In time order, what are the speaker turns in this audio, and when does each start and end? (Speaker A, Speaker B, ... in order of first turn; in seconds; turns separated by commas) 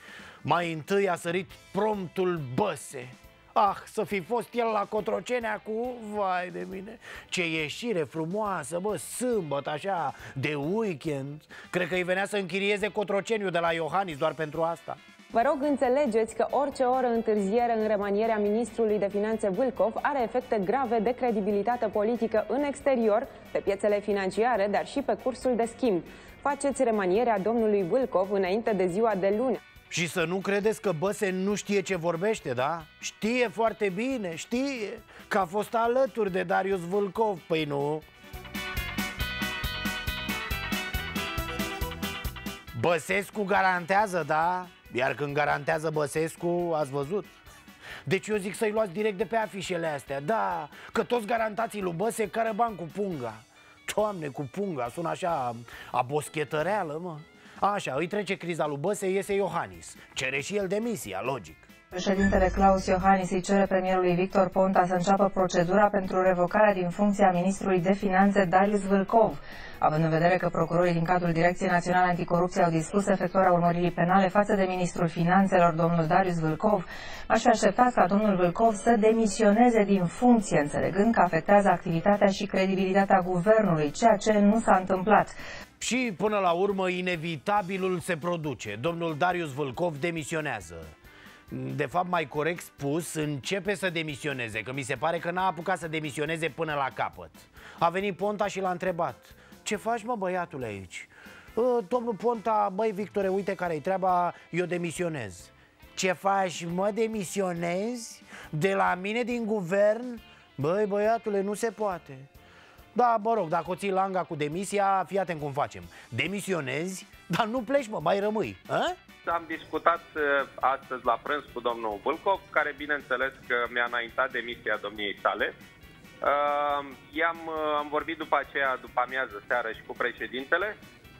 Speaker A: 0.4-15.0, Speaker B: 15.3-29.6, Speaker A: 29.9-38.0, Speaker A: 42.7-47.4, Speaker A: 48.0-61.7, Speaker C: 61.9-85.4, Speaker A: 85.8-90.9, Speaker A: 91.5-112.3, Speaker A: 112.9-119.0, Speaker D: 119.2-125.5, Speaker D: 126.2-130.7